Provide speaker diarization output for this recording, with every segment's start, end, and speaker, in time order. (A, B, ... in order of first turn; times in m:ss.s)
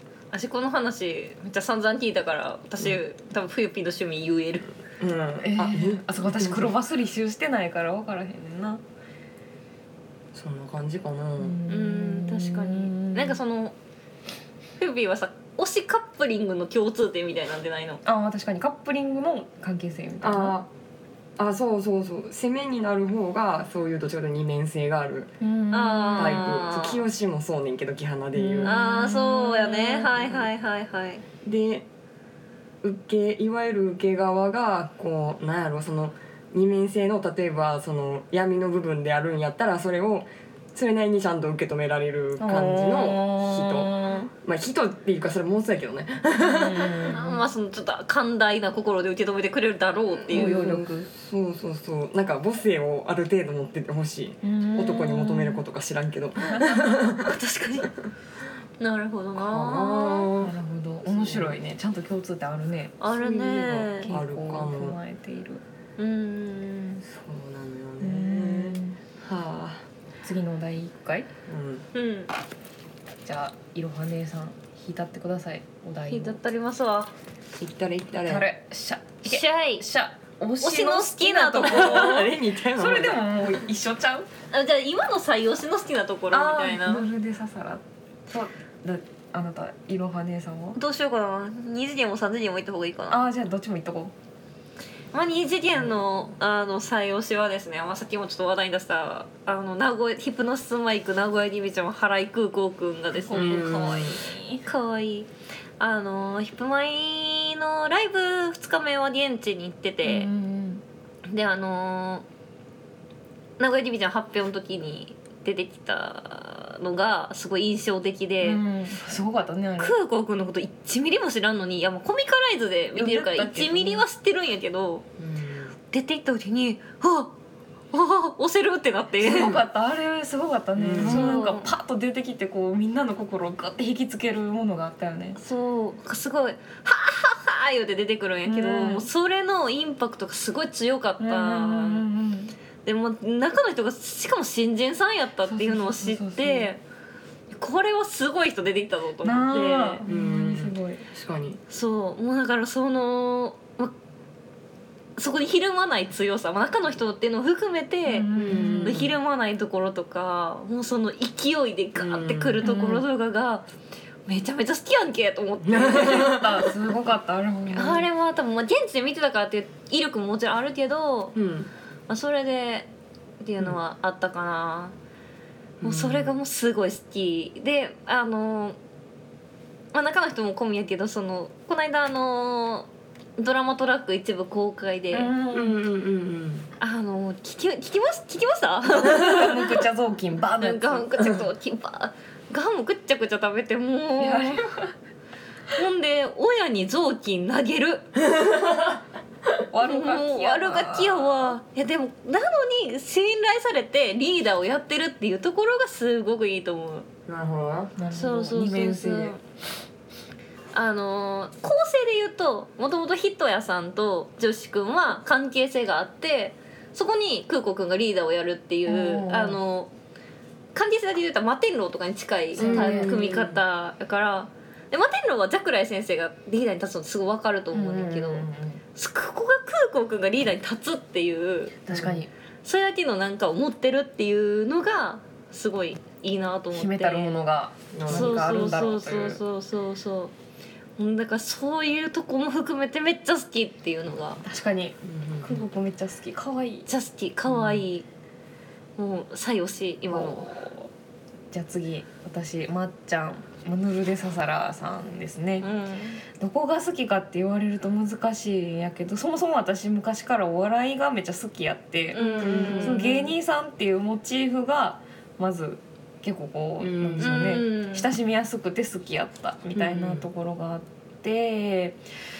0:00.3-0:04.8 A
0:05.0-0:06.8 B
0:05.4-0:08.8 C
0:10.3-0:11.6 B
0:11.4-0:13.4 C
0:11.7-0:13.7 A
0:14.8-0:18.0 A
0:18.0-0:20.6 C
0:20.2-0:20.7 B
0:21.4-0:25.3 B
0:25.4-0:26.6 C
0:25.7-0:27.0 A
0:26.2-0:28.8 B
0:28.3-0:30.3 C
0:28.6-0:31.2 A
0:31.4-0:31.8 B
0:32.8-0:47.1 B
0:42.4-0:44.3 C
0:46.3-0:47.4 C
0:47.1-0:50.6 A
0:50.2-0:57.3 B
0:50.3-0:51.1 C
0:54.4-0:55.6 C
0:56.4-0:56.9 C
0:57.2-0:57.9 A
0:58.8-1:00.3 A
0:59.4-1:01.6 B
1:00.4-1:03.0 C
1:03.0-1:04.1 A
1:03.1-1:05.0 B
1:03.9-1:05.6 C
1:06.0-1:07.0 A
1:07.0-1:09.9 B
1:08.0-1:09.0 C
1:10.2-1:11.3 C
1:11.4-1:11.8 B
1:11.9-1:12.3 A
1:13.2-1:16.4 C
1:16.1-1:17.1 A
1:17.6-1:18.5 B
1:18.2-1:24.2 C
1:19.2-1:19.8 A
1:20.6-1:22.3 A
1:21.6-1:23.3 B
1:24.5-1:27.0 A
1:26.3-1:30.8 C
1:30.7-1:33.2 A
1:33.1-1:34.1 C
1:35.1-1:43.6 A
1:43.3-1:44.7 C
1:43.3-1:44.2 B
1:44.6-1:50.3 A
1:50.0-1:50.8 C
1:51.3-1:52.2 A
1:53.6-1:58.6 A
1:58.4-2:00.0 C
1:59.8-2:05.0 A
2:02.9-2:04.0 C
2:05.2-2:05.7 B
2:05.9-2:07.3 A
2:07.9-2:09.6 A
2:09.2-2:15.4 C
2:09.3-2:09.6 B
2:10.8-2:11.4 B
2:11.0-2:11.7 A
2:15.3-2:22.0 A
2:18.4-2:19.1 C
2:21.2-2:22.5 C
2:22.8-2:26.8 A
2:25.4-2:26.7 C
2:27.5-2:30.0 A
2:29.2-2:31.1 C
2:30.0-2:31.6 B
2:31.7-2:33.9 A
2:35.2-2:43.6 A
2:38.0-2:39.1 C
2:38.4-2:39.2 B
2:41.9-2:42.6 B
2:42.6-2:43.1 C
2:44.2-2:46.6 A
2:45.6-2:46.5 B
2:45.8-2:48.1 C
2:47.7-2:51.3 A
2:51.3-2:51.7 B
2:52.1-2:52.9 A
2:53.4-2:54.9 A
2:55.8-2:56.4 B
2:55.8-2:58.8 A
2:59.9-3:05.3 A
3:05.1-3:05.8 C
3:05.5-3:06.7 B
3:06.8-3:09.8 A
3:08.8-3:11.4 C
3:10.6-3:14.6 A
3:14.2-3:14.9 C
3:15.7-3:18.2 A
3:18.4-3:18.7 B
3:19.7-3:21.5 C
3:19.8-3:27.0 A
3:27.3-3:28.0 B
3:28.0-3:29.4 C
3:28.1-3:29.4 A
3:30.7-3:39.9 A
3:38.8-3:39.6 C
3:40.7-3:51.9 A
3:42.6-3:43.5 C
3:42.6-3:43.6 B
3:47.7-3:48.8 C
3:51.9-3:52.3 C
3:51.9-3:52.2 B
3:52.6-3:57.3 A
3:56.7-3:59.4 C
3:57.9-3:58.7 B
3:58.1-4:00.3 A
4:01.0-4:04.4 A
4:04.4-4:06.9 C
4:05.0-4:05.7 B
4:06.9-4:08.0 A
4:07.5-4:07.8 B
4:09.0-4:10.5 A
4:10.1-4:10.9 C
4:11.5-4:15.7 C
4:15.6-4:16.2 A
4:16.2-4:32.0 C
4:22.1-4:23.3 A
4:22.1-4:23.1 B
4:26.8-4:27.5 B
4:27.2-4:28.1 A
4:29.7-4:30.3 B